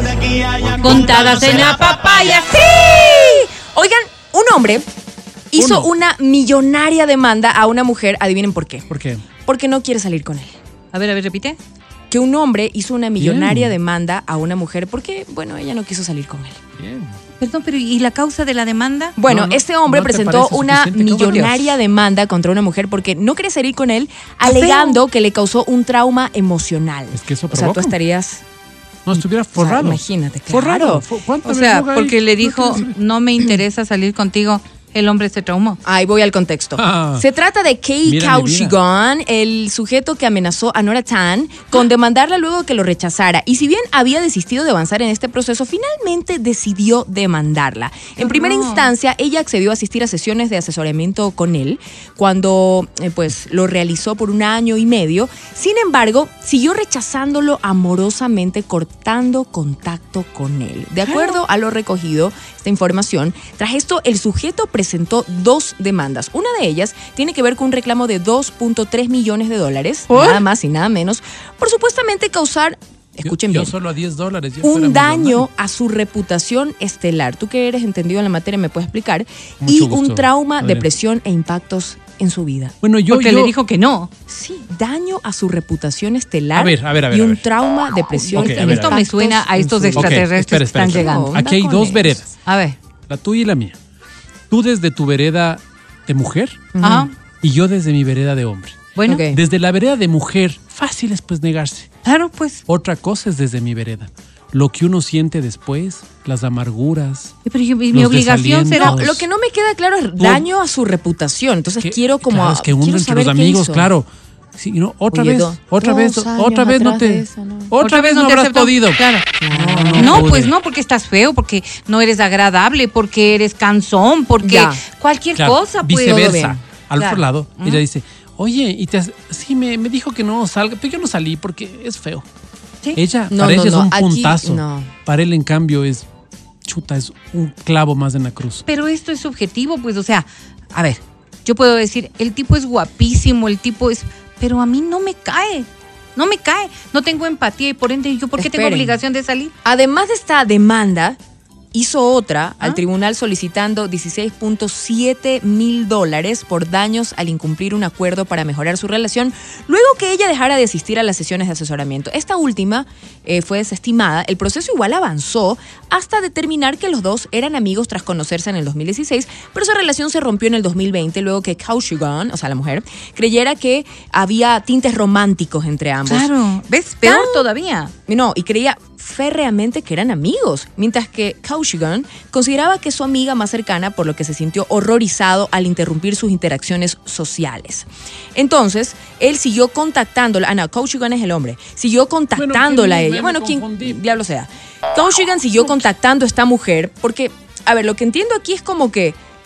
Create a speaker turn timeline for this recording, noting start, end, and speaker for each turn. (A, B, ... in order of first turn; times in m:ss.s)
0:00.6-0:02.7 A
0:02.6-0:04.8 B
0:05.5-0:08.9 B
0:05.6-0:05.9 C
0:08.9-0:09.3 C
0:09.4-0:10.5 B
0:10.9-0:11.6 A
0:12.1-0:16.6 B
0:13.2-0:13.7 C
0:16.8-0:17.2 C
0:17.4-0:19.2 A
0:19.2-0:28.4 B
0:19.2-0:21.8 C
0:24.4-0:25.0 A
0:27.1-0:28.0 C
0:29.0-0:33.0 C
0:29.5-0:31.0 B
0:31.4-0:35.8 A
0:35.8-1:13.7 B
0:36.8-0:37.2 C
0:38.0-0:38.8 C
0:48.2-0:48.9 A
1:01.0-1:01.4 C
1:10.1-1:10.4 C
1:13.2-1:15.5 C
1:14.6-1:22.7 B
1:19.6-1:20.9 C
1:22.8-1:23.5 C
1:23.1-1:24.1 A
1:24.3-1:30.2 B
1:26.5-1:27.4 C
1:28.3-1:29.0 C
1:28.3-1:31.4 A
1:29.6-1:32.3 C
1:30.9-1:32.2 B
1:32.4-1:32.8 A
1:33.1-1:33.8 C
1:34.5-1:36.7 C
1:36.7-1:37.1 B
1:36.8-1:37.1 A
1:37.4-1:41.9 C
1:38.9-1:39.3 A
1:39.0-1:39.4 B
1:42.0-1:42.6 A
1:42.7-1:47.3 C
1:47.4-1:49.0 A
1:47.9-1:49.2 C
1:48.7-1:53.9 B
1:50.2-1:50.4 C
1:51.8-2:00.5 C
1:55.1-1:57.8 B
1:57.8-1:59.2 A
1:59.4-2:00.3 B
1:59.9-2:07.8 A
2:04.4-2:04.8 B
2:05.4-2:12.2 C
2:06.0-2:06.6 B
2:12.9-2:16.1 C
2:13.3-2:14.9 B
2:16.6-2:18.6 C
2:18.6-2:29.5 A
2:28.4-2:29.0 B
2:29.6-2:31.2 B
2:31.7-2:56.3 B
2:56.0-2:57.9 A
2:57.0-2:57.5 B
2:58.1-3:19.2 B
3:12.3-3:14.1 C